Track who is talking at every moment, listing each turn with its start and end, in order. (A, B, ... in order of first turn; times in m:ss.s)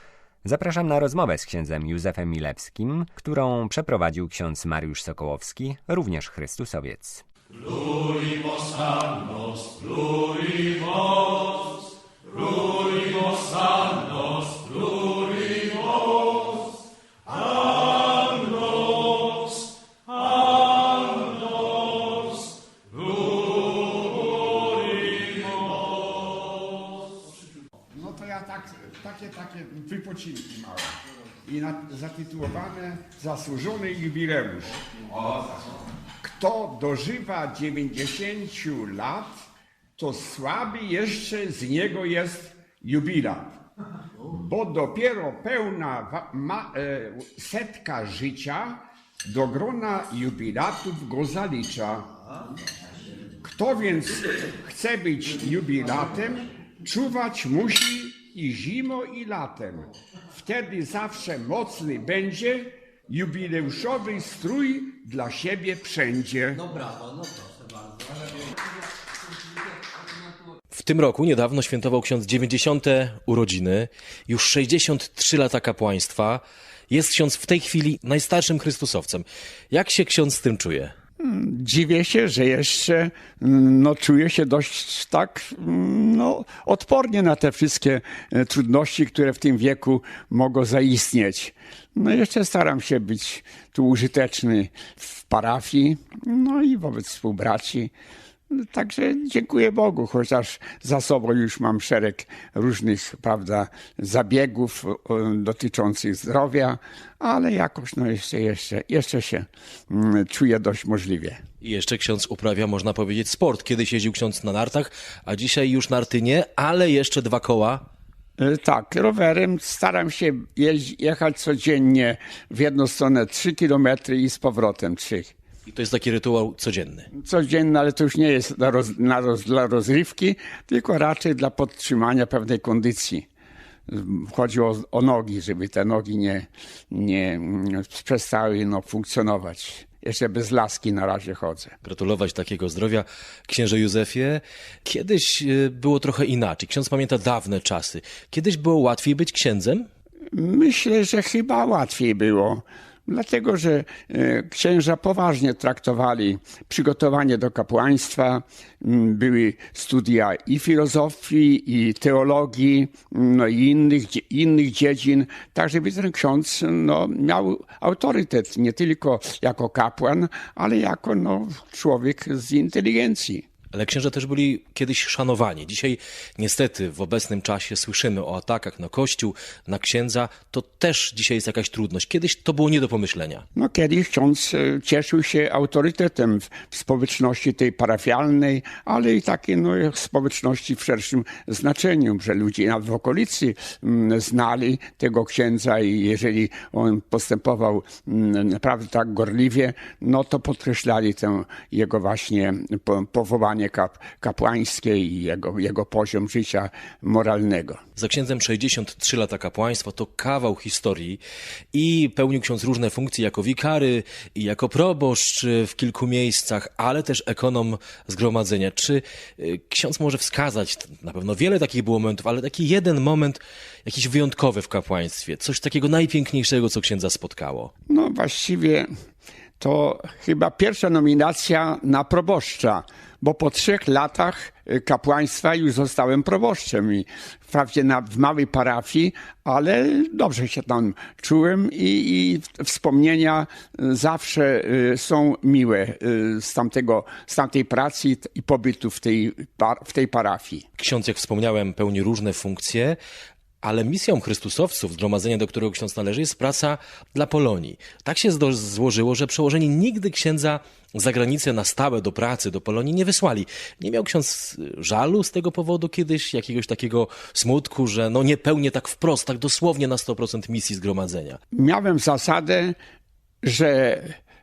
0:00.4-0:07.2 A
0:27.9-0:30.9 B
0:31.4-0:34.8 B
0:36.2-0:39.4 B
0:40.0-0:43.6 B
0:44.3-0:52.1 B
0:53.4-1:06.8 B
1:10.7-1:20.9 C
1:21.2-1:37.9 B
1:38.5-1:51.4 B
1:51.6-1:57.8 C
1:58.4-2:05.3 B
2:05.7-2:07.1 C
2:07.1-2:13.3 B
2:13.9-2:21.8 B
2:21.8-2:29.9 C
2:30.3-2:53.5 B
2:53.7-3:03.4 C
3:03.6-3:27.8 B
3:28.0-3:31.2 C
3:31.7-3:47.7 C
3:47.9-3:48.9 B
3:49.6-4:10.7 B
4:10.8-4:13.0 C
4:13.6-4:31.4 C
4:31.5-4:32.8 B
4:33.4-4:34.2 B